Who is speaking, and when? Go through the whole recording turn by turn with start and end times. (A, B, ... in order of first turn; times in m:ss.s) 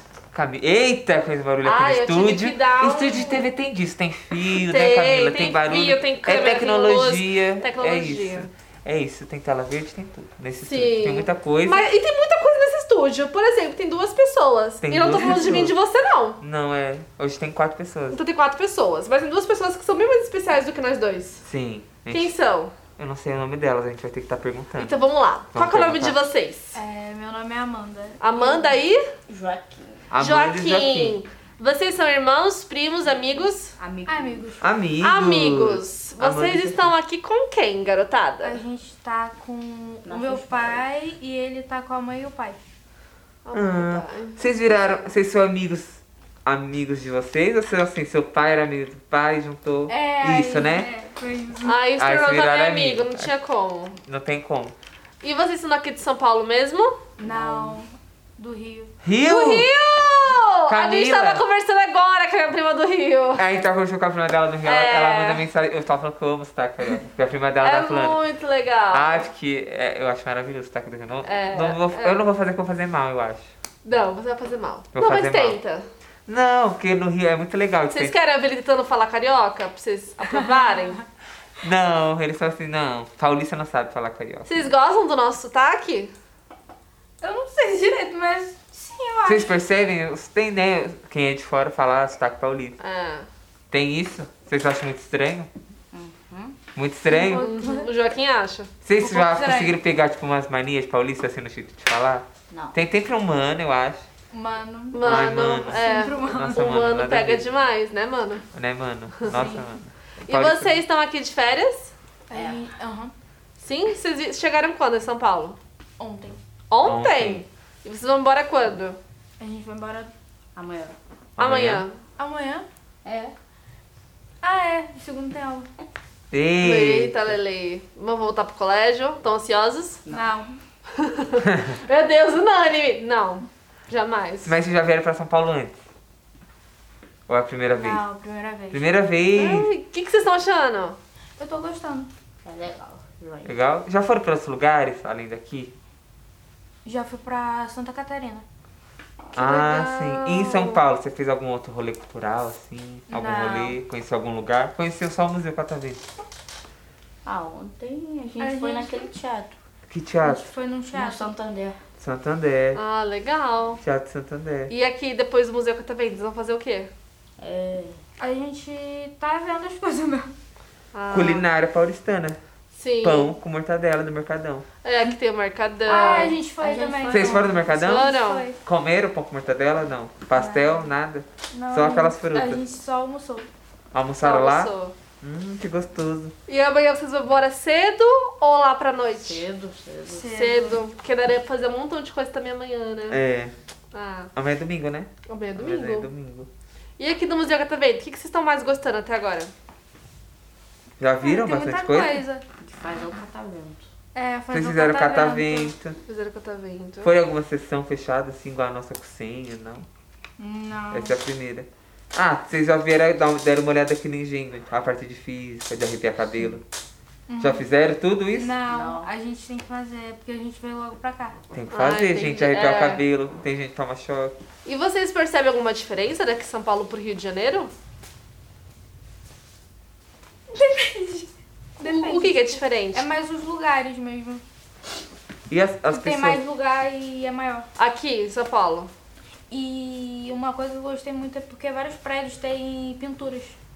0:00.3-0:11.9 A
0:01.6-0:03.5 B
0:04.4-0:08.5 B
0:10.6-0:16.4 B
0:14.8-0:15.7 A
0:16.4-0:18.2 A
0:18.1-0:21.4 B
0:21.4-0:22.3 A
0:22.1-0:22.7 B
0:23.0-0:25.0 A
0:24.8-0:26.8 B
0:25.5-0:26.2 A
0:26.7-0:28.8 C
0:28.2-0:29.0 B
0:29.3-0:30.2 D
0:30.1-0:31.2 A
0:30.1-0:33.8 B
0:33.8-0:34.5 D
0:34.0-0:34.7 C
0:34.6-0:36.9 A
0:35.0-0:38.6 B
0:38.4-0:42.6 C
0:40.0-0:40.9 D
0:43.4-0:45.1 B
0:43.5-0:50.9 A
0:49.9-0:51.8 C
0:51.6-0:54.0 B
0:52.0-0:53.3 A
0:54.0-0:54.7 A
0:55.2-0:57.0 B
0:57.2-0:58.9 C
0:57.2-0:57.8 D
0:59.0-0:59.7 A
0:59.2-1:03.4 B
1:00.7-1:01.4 A
1:03.4-1:08.2 A
1:04.6-1:05.5 B
1:07.6-1:09.3 B
1:08.9-1:13.5 A
1:11.2-1:12.2 B
1:13.8-1:15.9 B
1:14.9-1:15.6 A
1:16.3-1:18.1 A
1:17.9-1:21.0 B
1:21.6-1:24.6 A
1:24.4-1:26.1 B
1:27.2-1:29.6 C
1:29.2-1:32.8 A
1:32.8-1:33.3 B
1:33.7-1:35.5 A
1:35.9-1:36.6 D
1:36.7-1:37.4 A
1:37.0-1:37.9 C
1:37.3-1:38.7 B
1:38.8-1:44.0 A
1:39.0-1:39.8 C
1:42.5-1:42.8 D
1:44.3-1:46.7 C
1:44.9-1:48.4 B
1:45.0-1:47.5 A
1:48.5-1:50.8 A
1:49.2-1:49.5 B
1:49.3-1:49.7 C
1:50.2-1:51.9 B
1:52.3-1:53.1 C
1:52.3-1:52.7 D
1:53.6-1:55.6 B
1:56.0-1:56.4 C
1:56.7-1:59.0 B
1:56.8-1:57.4 A
1:59.4-2:00.1 C
2:00.6-2:01.0 D
2:01.4-2:01.8 A
2:01.4-2:02.0 B
2:02.2-2:02.7 C
2:03.0-2:03.3 D
2:04.4-2:05.7 C
2:06.3-2:07.3 A
2:06.6-2:10.0 B
2:10.0-2:10.3 D
2:10.1-2:10.6 C
2:11.2-2:14.5 B
2:14.4-2:15.8 A
2:17.3-2:18.0 A
2:17.7-2:18.9 C
2:18.7-2:19.7 A
2:19.3-2:21.0 B
2:21.4-2:22.1 C
2:22.4-2:23.6 D
2:23.4-2:25.7 A
2:26.8-2:28.4 C
2:29.4-2:30.8 B
2:29.4-2:36.0 A
2:33.1-2:33.8 C
2:37.2-2:39.6 D
2:38.4-2:39.1 C
2:39.9-2:40.5 A
2:40.2-2:41.3 C
2:40.9-2:41.8 D
2:42.0-2:42.8 A
2:42.7-2:43.8 B
2:43.8-2:44.7 A
2:44.7-2:46.9 B
2:47.4-2:48.0 D
2:48.2-2:50.3 C
2:50.9-2:51.5 B
2:51.1-2:52.4 A
2:52.7-2:53.4 B
2:53.0-2:54.6 A
2:54.8-2:56.4 B
2:55.9-2:57.6 D
2:55.9-2:58.6 C
2:57.1-3:02.6 A
2:57.7-2:58.5 B
3:00.3-3:00.9 C
3:01.5-3:03.5 C
3:03.9-3:06.3 A
3:04.2-3:04.9 B
3:06.5-3:09.4 B
3:09.1-3:10.3 D
3:10.0-3:10.8 C
3:10.3-3:13.2 B
3:13.1-3:13.5 A
3:13.9-3:14.3 B
3:14.3-3:16.5 A
3:15.3-3:16.1 B
3:17.0-3:19.5 B
3:21.0-3:22.2 A
3:21.2-3:22.4 C
3:22.6-3:23.9 D
3:24.1-3:25.7 C
3:24.5-3:26.0 A
3:26.1-3:27.1 B
3:27.0-3:29.9 A
3:30.4-3:31.2 C
3:30.9-3:36.6 A
3:37.3-3:37.6 C
3:37.4-3:38.6 A
3:38.3-3:41.4 C
3:38.6-3:39.1 D
3:41.5-3:44.4 A
3:41.7-3:43.0 B
3:44.6-3:47.7 B
3:50.5-3:54.4 C
3:51.8-3:53.1 B
3:55.5-3:56.4 A
3:55.9-3:57.7 C
3:57.8-3:58.9 B
3:59.5-4:03.6 C